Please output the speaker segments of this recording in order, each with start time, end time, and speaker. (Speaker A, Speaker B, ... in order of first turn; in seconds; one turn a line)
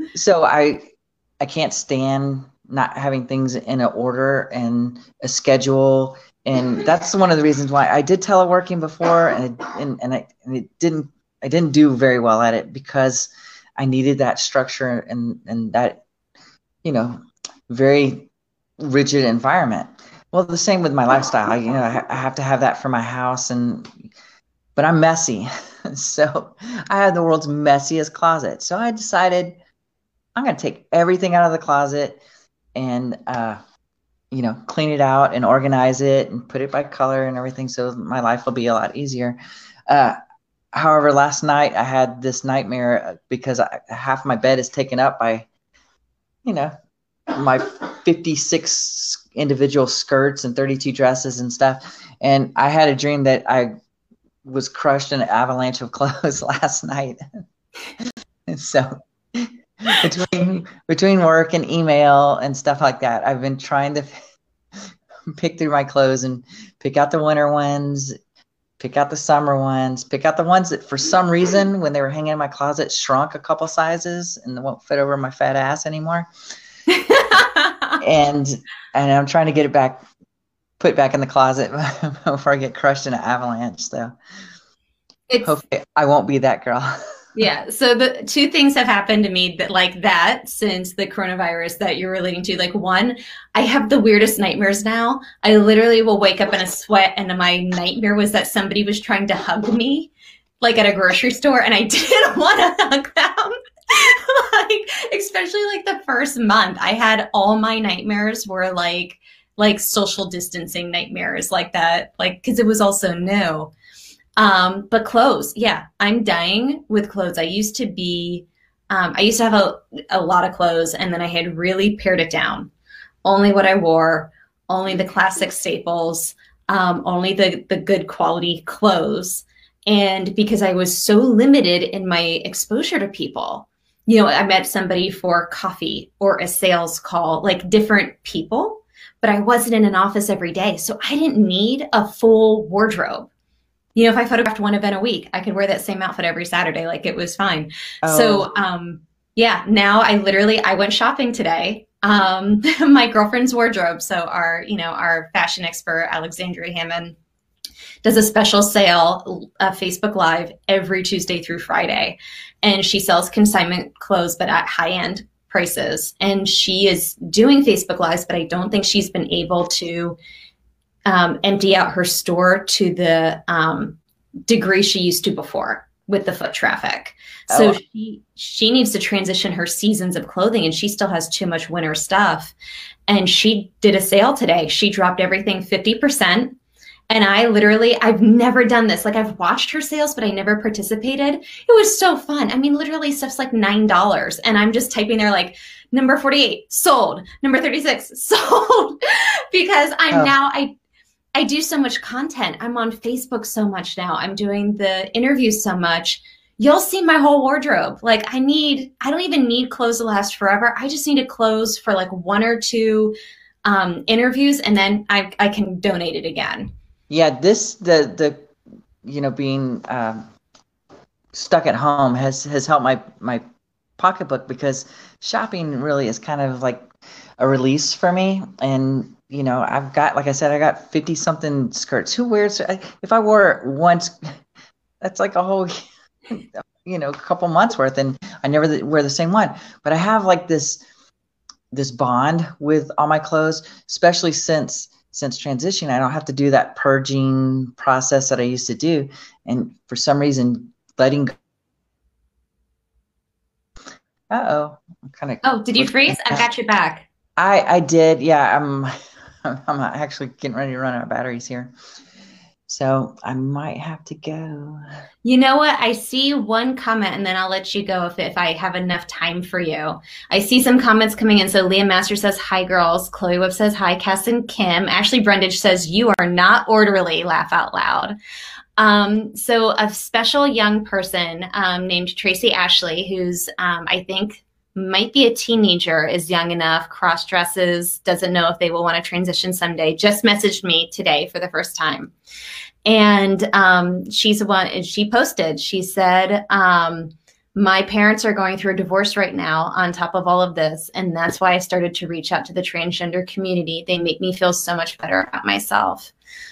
Speaker A: 0.1-0.8
Speaker A: 1.4-16.0
Speaker A: 16.8-18.3
Speaker A: 18.8-23.9
Speaker A: 24.8-29.6
Speaker A: 30.4-32.2
Speaker A: 32.7-33.6
Speaker A: 34.3-39.4
Speaker A: 39.9-40.2
Speaker A: 40.7-45.5
Speaker A: 46.4-46.7
Speaker A: 47.3-53.7
Speaker A: 54.4-57.2
Speaker A: 58.5-64.1
Speaker A: 65.3-68.1
Speaker A: 68.8-76.3
Speaker B: 76.9-78.0
Speaker A: 78.0-80.0
Speaker A: 80.8-84.2
Speaker B: 85.3-85.6
Speaker A: 85.4-87.0
Speaker B: 87.3-113.7
Speaker B: 114.4-122.7
Speaker B: 123.2-143.3
Speaker B: 143.9-157.2
Speaker A: 148.0-148.6
Speaker B: 158.0-170.2
Speaker B: 171.1-182.5
Speaker A: 177.5-177.8
Speaker B: 183.1-186.6
Speaker B: 187.1-200.7
Speaker B: 201.3-216.7
Speaker A: 217.1-218.4
Speaker A: 219.0-220.3
Speaker A: 221.3-223.4
Speaker A: 224.0-226.9
Speaker A: 227.4-234.3
Speaker A: 235.0-235.8
Speaker A: 236.3-240.8
Speaker A: 241.7-251.3
Speaker A: 254.3-256.4
Speaker B: 255.4-257.1
Speaker A: 257.4-261.7
Speaker A: 262.7-264.8
Speaker B: 265.2-278.1
Speaker B: 278.8-292.1
Speaker B: 292.9-306.1